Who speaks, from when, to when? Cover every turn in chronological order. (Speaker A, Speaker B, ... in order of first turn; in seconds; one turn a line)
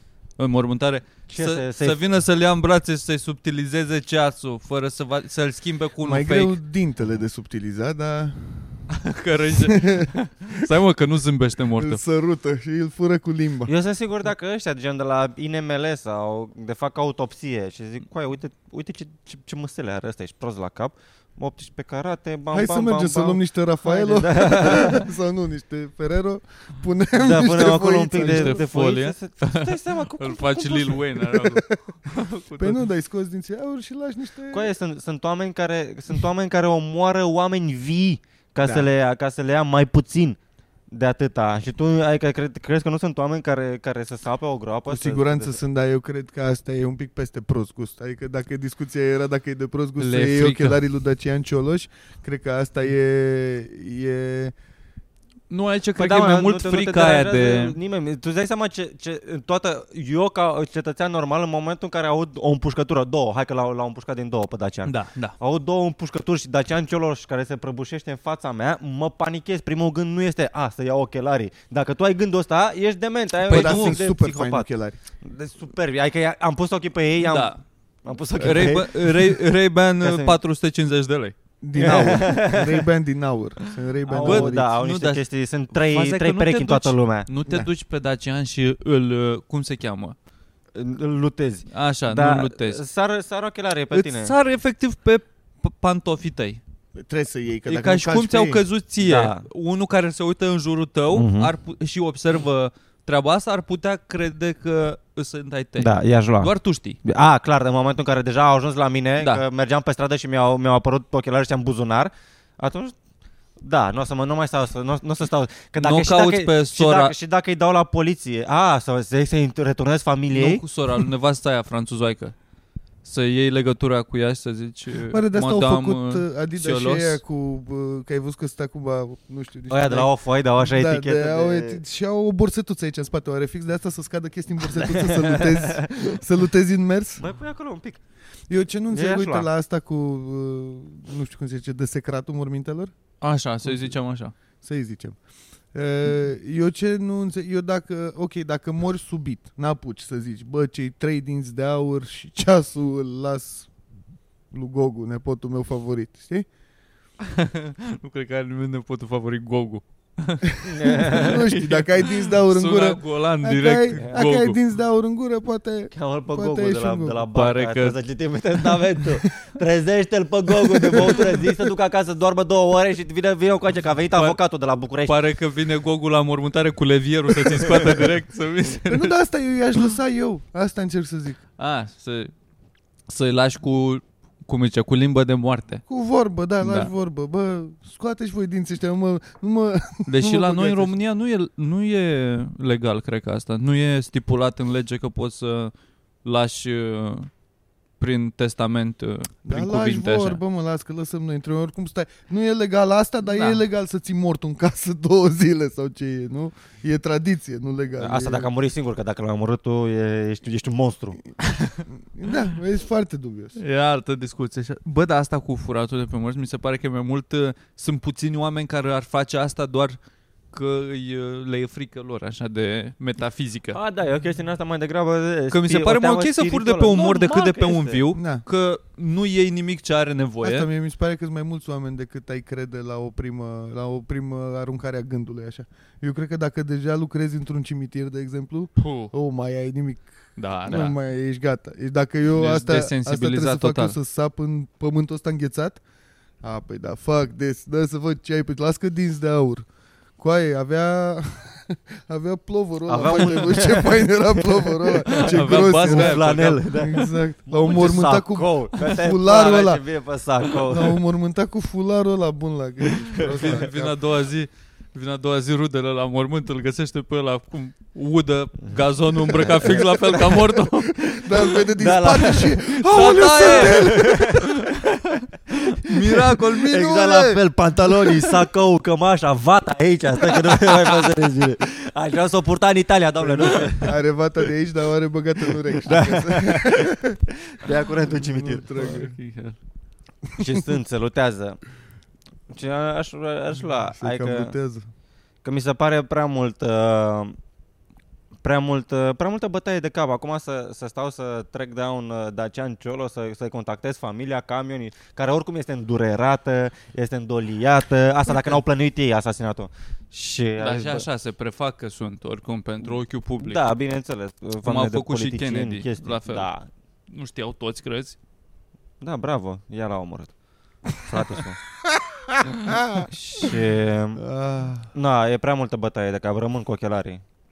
Speaker A: 0.4-6.5
Speaker B: 1.3-2.0
Speaker C: 6.0-8.9
Speaker A: 8.9-12.0
Speaker C: 9.7-10.1
Speaker C: 11.8-13.7
Speaker B: 13.7-25.1
Speaker C: 22.5-28.6
Speaker B: 27.2-31.1
Speaker A: 28.2-32.9
Speaker C: 31.3-31.8
Speaker C: 32.6-34.7
Speaker B: 34.5-40.4
Speaker C: 38.6-38.9
Speaker B: 40.9-45.6
Speaker C: 44.9-54.5
Speaker A: 50.0-50.8
Speaker A: 55.5-57.8
Speaker B: 56.0-74.7
Speaker A: 64.8-65.4
Speaker A: 73.5-74.0
Speaker C: 73.5-75.0
Speaker B: 75.2-77.5
Speaker A: 77.2-77.6
Speaker B: 78.0-79.4
Speaker A: 78.4-82.2
Speaker B: 80.0-80.4
Speaker C: 81.6-84.7
Speaker B: 81.8-82.8
Speaker B: 84.1-87.3
Speaker A: 84.2-85.2
Speaker A: 85.7-90.2
Speaker B: 90.7-94.3
Speaker A: 91.7-92.8
Speaker A: 93.9-96.6
Speaker C: 97.0-98.6
Speaker A: 97.7-107.0
Speaker B: 99.0-99.5
Speaker B: 101.1-101.5
Speaker B: 105.8-106.5
Speaker B: 107.0-113.0
Speaker A: 109.2-109.4
Speaker B: 113.6-120.6
Speaker A: 115.8-117.1
Speaker A: 120.3-122.3
Speaker A: 123.0-127.2
Speaker C: 125.1-137.2
Speaker B: 129.7-131.8
Speaker B: 134.7-136.1
Speaker B: 137.2-138.0
Speaker C: 138.5-142.9
Speaker B: 138.9-139.5
Speaker A: 143.2-144.3
Speaker C: 143.7-143.9
Speaker C: 144.6-145.2
Speaker C: 145.7-153.7
Speaker C: 154.5-156.5
Speaker A: 157.3-164.6
Speaker B: 160.7-161.4
Speaker C: 161.1-167.2
Speaker B: 164.0-164.2
Speaker B: 165.9-175.2
Speaker A: 167.3-168.0
Speaker A: 175.1-179.1
Speaker C: 178.9-181.4
Speaker A: 181.6-182.3
Speaker A: 183.1-185.8
Speaker C: 185.9-190.9
Speaker A: 186.6-186.9
Speaker A: 190.1-195.7
Speaker A: 196.2-197.3
Speaker A: 198.0-200.4
Speaker C: 199.4-208.5
Speaker A: 203.3-203.6
Speaker B: 208.0-211.2
Speaker A: 211.4-211.8
Speaker C: 211.9-213.6
Speaker A: 213.6-220.0
Speaker A: 220.5-223.8
Speaker B: 223.7-228.0
Speaker A: 225.5-230.7
Speaker C: 228.2-228.4
Speaker C: 230.4-240.1
Speaker A: 238.8-239.1
Speaker A: 240.4-241.0
Speaker C: 240.7-245.8
Speaker A: 242.3-244.0
Speaker C: 246.4-249.7
Speaker C: 250.2-259.8
Speaker B: 252.9-261.0
Speaker A: 255.1-256.7
Speaker C: 260.6-264.0
Speaker B: 263.2-263.5
Speaker A: 263.3-271.6
Speaker B: 268.7-270.2
Speaker C: 269.6-274.5
Speaker B: 271.7-274.6
Speaker A: 272.8-274.7
Speaker A: 275.5-276.9
Speaker C: 276.4-278.4
Speaker B: 276.7-283.9
Speaker C: 283.2-287.2
Speaker B: 285.8-289.0
Speaker C: 288.1-289.1
Speaker A: 288.8-289.6
Speaker C: 290.3-290.6
Speaker B: 290.4-291.6
Speaker B: 292.5-294.5
Speaker C: 293.9-294.9
Speaker B: 295.4-297.4
Speaker B: 298.4-311.1
Speaker A: 310.6-313.6
Speaker B: 313.4-316.7
Speaker A: 314.6-316.5
Speaker A: 317.1-318.2
Speaker B: 319.0-320.3
Speaker B: 321.0-321.6
Speaker C: 322.1-323.5
Speaker B: 323.0-324.2
Speaker C: 324.2-324.9
Speaker B: 324.9-327.2